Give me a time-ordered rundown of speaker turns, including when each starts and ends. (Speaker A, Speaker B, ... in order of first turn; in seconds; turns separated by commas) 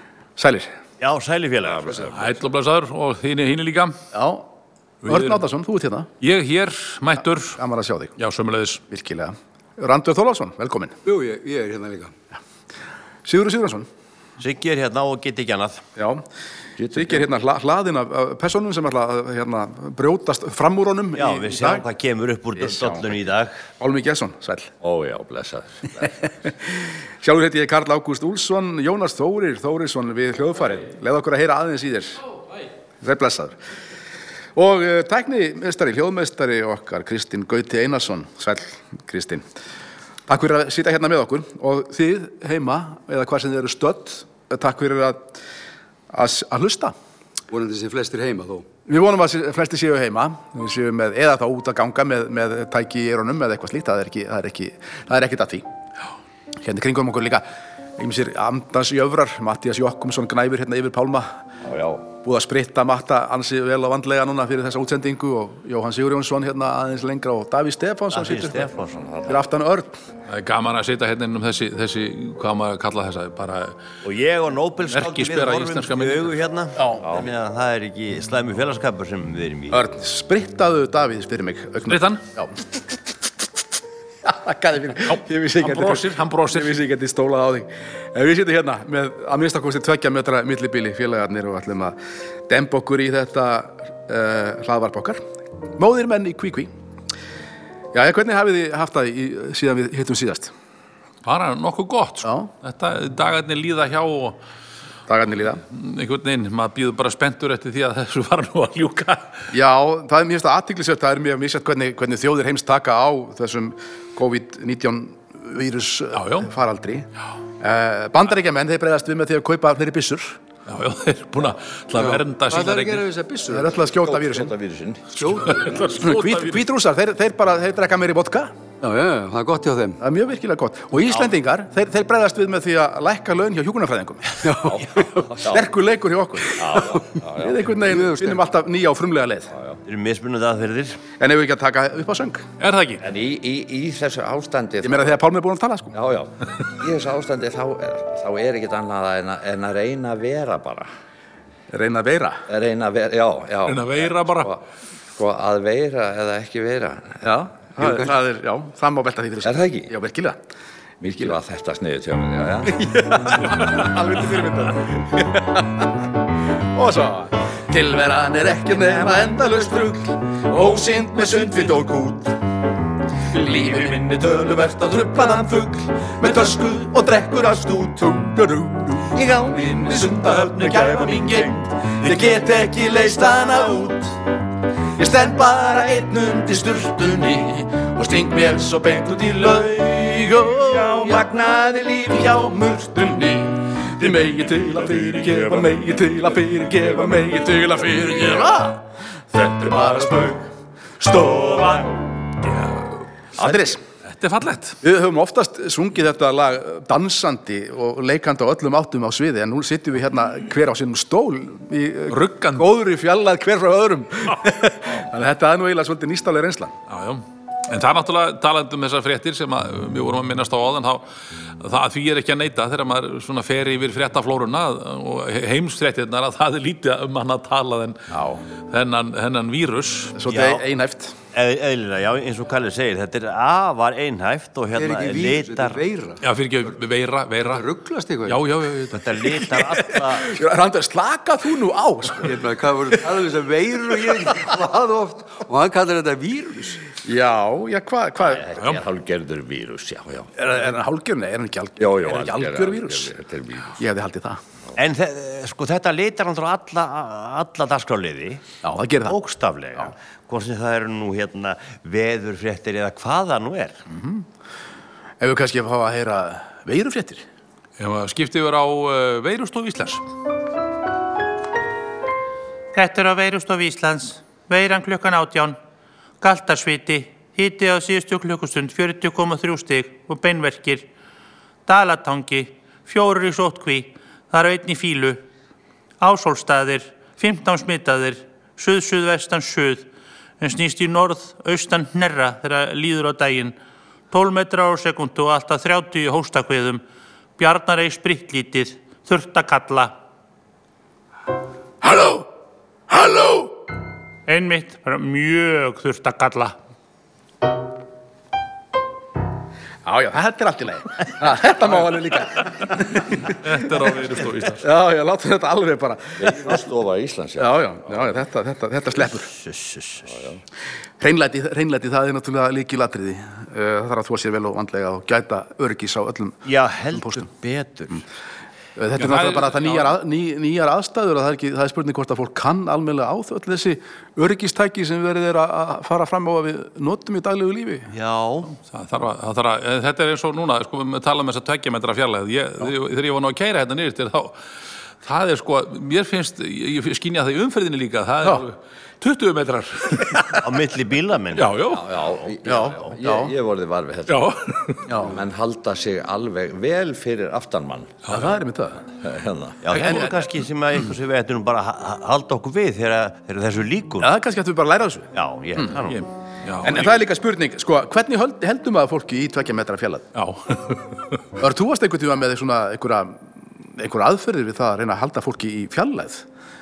Speaker A: 0.4-0.7, Speaker B: 1.0-2.1, Speaker C: 1.7-2.3, Speaker D: 2.1-4.0, Speaker A: 4.1-4.5, Speaker D: 5.0-5.4, Speaker A: 5.0-6.1, Speaker D: 6.2-7.6, Speaker A: 7.6-8.1, Speaker D: 8.2-8.8, Speaker A: 8.9-10.9, Speaker E: 11.0-12.1, Speaker A: 13.2-13.9, Speaker B: 14.4-15.8, Speaker A: 15.9-16.2, Speaker C: 16.8-17.2, Speaker A: 16.9-21.8, Speaker B: 21.1-23.6, Speaker A: 22.6-23.0, Speaker A: 23.8-24.7, Speaker C: 24.8-26.3, Speaker A: 27.2-32.2, Speaker A: 33.0-33.5, Speaker A: 34.5-39.4, Speaker A: 40.3-45.4, Speaker A: 46.1-46.9, Speaker E: 47.5-48.7, Speaker A: 48.9-55.6, Speaker A: 56.6-57.4, Speaker A: 58.0-61.3, Speaker C: 61.6-62.0, Speaker A: 62.1-68.7, Speaker B: 68.1-69.1, Speaker C: 68.9-69.4, Speaker A: 69.2-70.0, Speaker D: 70.3-73.7, Speaker B: 74.0-79.8, Speaker D: 74.9-76.3, Speaker A: 76.8-77.0, Speaker C: 77.0-77.3, Speaker A: 79.7-82.5, Speaker D: 81.9-82.2, Speaker A: 84.2-92.0, Speaker D: 85.6-86.8, Speaker A: 92.5-95.2, Speaker A: 95.8-96.7, Speaker A: 97.9-100.5, Speaker D: 101.2-104.4, Speaker A: 102.2-102.5, Speaker A: 105.1-105.6, Speaker D: 105.7-109.3, Speaker A: 109.5-117.1, Speaker D: 116.1-116.5, Speaker A: 117.6-120.4, Speaker D: 120.7-123.0, Speaker E: 122.0-123.8, Speaker A: 123.5-124.5, Speaker C: 123.9-125.3, Speaker E: 125.2-125.8, Speaker D: 125.4-126.6, Speaker A: 125.9-128.5, Speaker E: 128.8-130.0, Speaker A: 130.0-139.5, Speaker E: 134.4-134.8, Speaker C: 134.6-135.7, Speaker C: 136.6-137.6, Speaker E: 137.9-138.4, Speaker B: 139.8-141.0, Speaker A: 141.2-142.7, Speaker D: 142.6-143.0, Speaker C: 143.0-145.1, Speaker A: 144.8-145.9, Speaker C: 145.9-150.9, Speaker A: 151.7-152.4, Speaker C: 152.5-154.6, Speaker D: 153.7-154.5, Speaker C: 155.1-157.2, Speaker A: 157.2-160.4, Speaker E: 157.8-158.1, Speaker C: 159.4-159.9, Speaker C: 161.0-163.4, Speaker A: 162.7-165.9, Speaker A: 166.7-172.4, Speaker A: 173.3-184.2, Speaker A: 185.0-200.4, Speaker A: 201.0-202.0, Speaker D: 202.4-202.9, Speaker A: 203.4-203.8, Speaker D: 204.1-204.8, Speaker A: 204.8-216.7, Speaker D: 212.1-212.7, Speaker D: 216.9-221.0, Speaker D: 221.6-228.0, Speaker A: 228.1-228.4, Speaker D: 228.7-230.1, Speaker A: 230.1-231.1, Speaker B: 230.3-230.6, Speaker B: 231.3-235.8, Speaker E: 234.7-236.2, Speaker D: 236.2-237.7, Speaker E: 237.5-238.4, Speaker D: 238.2-239.1, Speaker B: 238.9-240.3, Speaker A: 240.1-242.4, Speaker E: 242.2-246.8, Speaker A: 247.0-248.4, Speaker C: 248.2-250.3, Speaker D: 248.6-248.8, Speaker A: 250.3-253.1, Speaker C: 251.8-253.8, Speaker A: 253.8-254.4, Speaker B: 254.8-258.4, Speaker A: 258.6-259.1, Speaker B: 259.1-263.8, Speaker A: 263.9-264.2, Speaker A: 265.2-267.2, Speaker D: 267.8-270.0, Speaker F: 272.7-275.6, Speaker F: 276.2-280.9, Speaker F: 281.6-285.2, Speaker F: 286.0-289.9, Speaker F: 290.4-293.6, Speaker F: 294.1-296.8, Speaker F: 297.4-299.9, Speaker A: 301.8-302.2, Speaker A: 302.9-303.5, Speaker F: 304.3-306.5, Speaker A: 309.9-313.7, Speaker D: 313.2-314.6, Speaker A: 314.6-316.5, Speaker C: 316.2-317.9, Speaker A: 317.4-319.3, Speaker B: 319.2-320.1, Speaker C: 320.1-320.4, Speaker A: 321.0-327.3, Speaker B: 326.4-328.0, Speaker A: 328.8-337.9, Speaker D: 329.0-329.9, Speaker B: 337.9-338.5, Speaker D: 338.7-344.4, Speaker D: 345.0-350.4, Speaker B: 350.3-351.5, Speaker D: 351.4-351.8, Speaker C: 351.7-354.3, Speaker A: 352.4-353.3, Speaker D: 354.1-354.8, Speaker A: 354.9-355.1, Speaker C: 355.0-358.0, Speaker D: 358.1-358.3, Speaker A: 358.1-358.9, Speaker C: 359.0-359.6, Speaker B: 359.6-364.1, Speaker A: 359.7-360.1, Speaker A: 364.0-365.7, Speaker B: 365.1-366.0, Speaker D: 365.9-366.9, Speaker A: 366.6-370.1, Speaker D: 370.1-371.2, Speaker A: 371.4-373.2, Speaker A: 373.7-376.2